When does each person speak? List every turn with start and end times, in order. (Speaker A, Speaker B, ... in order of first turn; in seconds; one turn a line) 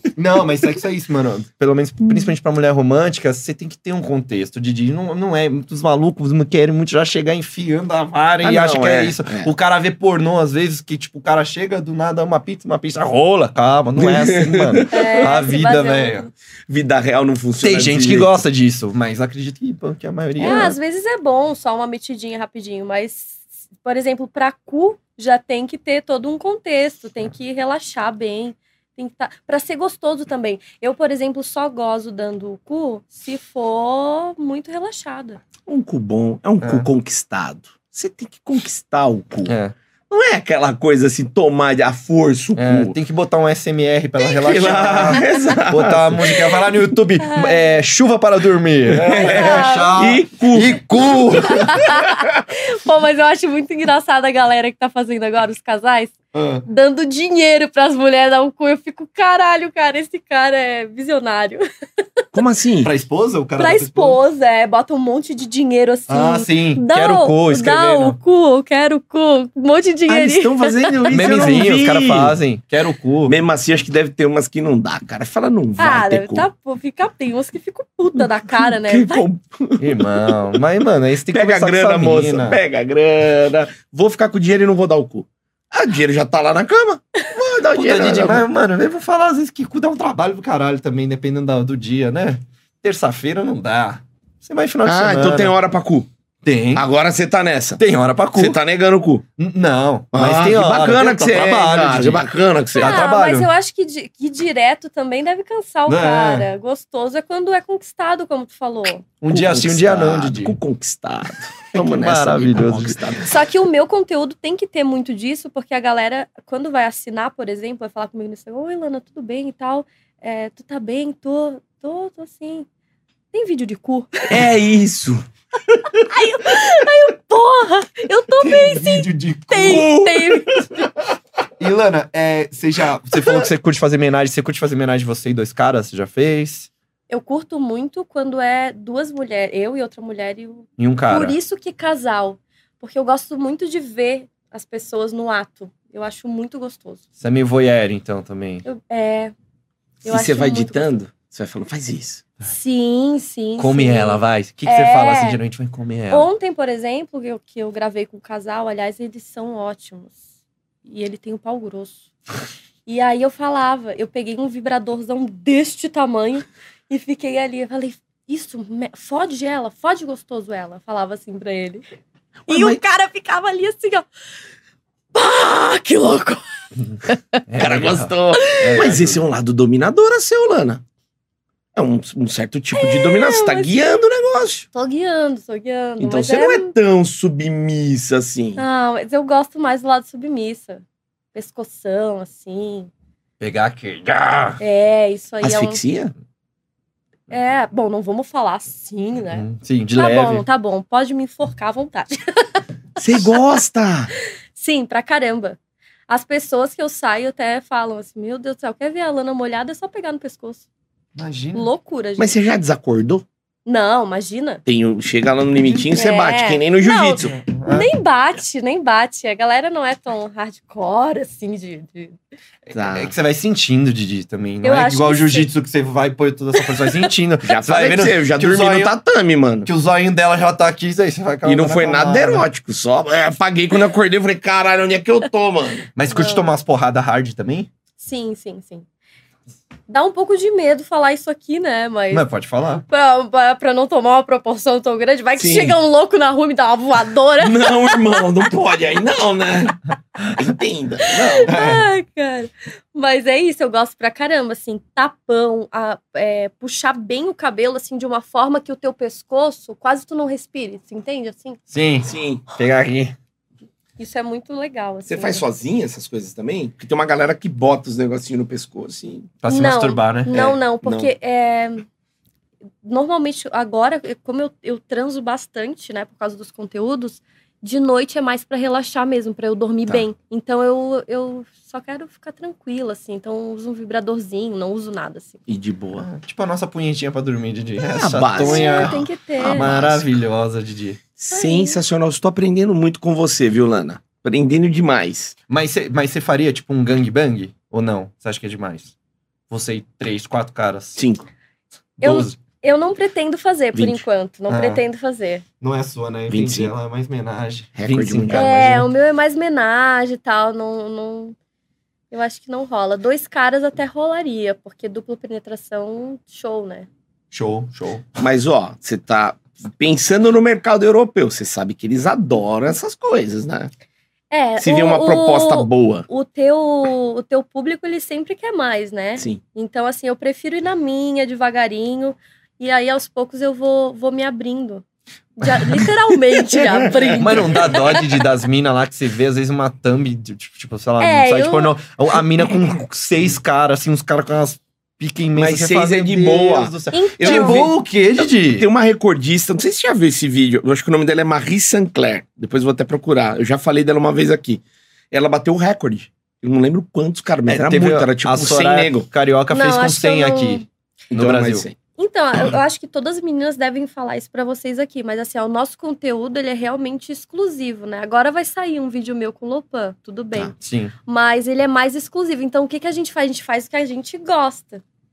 Speaker A: 0.2-16.3
Speaker B: 8.4-9.5
Speaker B: 14.0-15.1
Speaker C: 14.9-16.3
Speaker B: 16.7-18.4
Speaker A: 17.6-20.8
Speaker C: 20.4-35.4
Speaker B: 35.7-39.5
Speaker A: 36.6-36.9
Speaker A: 39.5-39.7
Speaker B: 40.1-43.0
Speaker A: 42.6-52.0
Speaker B: 44.4-46.2
Speaker C: 47.2-47.7
Speaker B: 48.9-50.8
Speaker C: 49.1-50.2
Speaker C: 51.3-61.6
Speaker B: 51.9-52.3
Speaker A: 56.3-56.6
Speaker B: 62.3-62.9
Speaker A: 62.8-64.2
Speaker C: 63.6-71.4
Speaker A: 66.1-68.2
Speaker B: 70.1-72.4
Speaker A: 71.1-73.3
Speaker B: 73.3-76.5
Speaker C: 75.8-79.2
Speaker B: 78.5-80.5
Speaker A: 79.8-82.6
Speaker B: 81.3-88.4
Speaker A: 87.7-95.5
Speaker B: 94.8-96.1
Speaker A: 96.4-96.8
Speaker B: 96.7-97.8
Speaker A: 97.8-98.6
Speaker B: 98.3-99.2
Speaker A: 99.4-102.2
Speaker B: 100.1-103.0
Speaker A: 102.8-103.5
Speaker C: 102.8-109.1
Speaker A: 105.9-106.5
Speaker A: 109.2-110.5
Speaker B: 109.3-113.4
Speaker A: 111.7-113.0
Speaker C: 113.3-122.7
Speaker C: 123.3-124.5
Speaker B: 124.3-125.2
Speaker C: 126.0-130.9
Speaker B: 128.4-130.7
Speaker A: 128.7-129.8
Speaker A: 131.6-136.7
Speaker C: 137.1-147.0
Speaker A: 140.8-141.4
Speaker A: 147.2-148.6
Speaker C: 148.6-149.3
Speaker C: 150.0-151.0
Speaker B: 150.1-152.2
Speaker C: 152.4-155.4
Speaker A: 153.6-156.3
Speaker C: 156.1-160.1
Speaker C: 160.9-162.1
Speaker C: 162.9-171.8
Speaker B: 172.5-172.8
Speaker C: 172.5-174.1
Speaker C: 175.1-176.4
Speaker C: 177.1-177.4
Speaker A: 177.5-179.2
Speaker B: 177.6-180.8
Speaker C: 178.4-178.9
Speaker B: 181.7-184.7
Speaker C: 182.7-183.9
Speaker C: 184.7-186.7
Speaker B: 186.0-188.6
Speaker C: 188.6-190.8
Speaker C: 191.3-192.9
Speaker A: 193.4-194.6
Speaker C: 194.6-195.8
Speaker B: 195.4-196.1
Speaker C: 197.3-202.6
Speaker A: 199.3-200.4
Speaker B: 203.0-204.1
Speaker C: 204.6-205.6
Speaker C: 206.1-210.6
Speaker A: 211.1-211.7
Speaker C: 211.5-212.4
Speaker B: 212.2-213.3
Speaker C: 213.7-214.6
Speaker B: 214.6-217.3
Speaker C: 215.9-222.2
Speaker A: 217.3-217.9
Speaker A: 222.7-228.9
Speaker B: 222.7-223.1
Speaker C: 224.6-225.5
Speaker C: 226.6-226.9
Speaker B: 227.4-229.7
Speaker A: 229.7-232.4
Speaker B: 231.4-235.9
Speaker A: 235.9-237.7
Speaker C: 236.1-236.5
Speaker C: 238.0-238.8
Speaker C: 239.9-242.2
Speaker A: 242.1-242.8
Speaker C: 242.9-248.2
Speaker B: 245.4-245.8
Speaker B: 247.4-249.8
Speaker B: 250.3-251.6
Speaker C: 251.1-261.6
Speaker A: 251.5-251.8
Speaker A: 261.7-263.2
Speaker B: 262.0-262.4
Speaker C: 264.0-265.4
Speaker B: 265.1-269.3
Speaker A: 269.4-270.5
Speaker C: 269.4-271.9
Speaker B: 270.3-271.1
Speaker C: 272.8-285.4
Speaker B: 285.5-286.1
Speaker A: 286.0-291.0
Speaker B: 287.9-290.1
Speaker C: 288.4-289.7
Speaker B: 291.2-295.4
Speaker C: 291.3-291.8
Speaker A: 295.5-298.9
Speaker A: 299.5-301.0
Speaker B: 300.9-301.3
Speaker A: 302.0-302.4
Speaker C: 302.0-305.4
Speaker B: 303.7-304.0
Speaker A: 304.5-304.8
Speaker A: 305.6-308.9
Speaker B: 306.3-306.7
Speaker B: 307.8-308.6
Speaker C: 308.3-311.4
Speaker C: 312.1-316.9
Speaker A: 317.3-318.0
Speaker B: 318.2-323.7
Speaker C: 324.3-334.8
Speaker B: 324.6-326.1
Speaker C: 335.4-338.2
Speaker B: 336.5-337.7
Speaker A: 337.2-348.7
Speaker C: 341.0-341.7
Speaker B: 345.4-359.1
Speaker C: 346.9-347.7
Speaker A: 357.5-361.6
Speaker C: 359.5-360.6
Speaker B: 361.1-361.8
Speaker C: 362.0-374.8
Speaker A: 370.6-370.9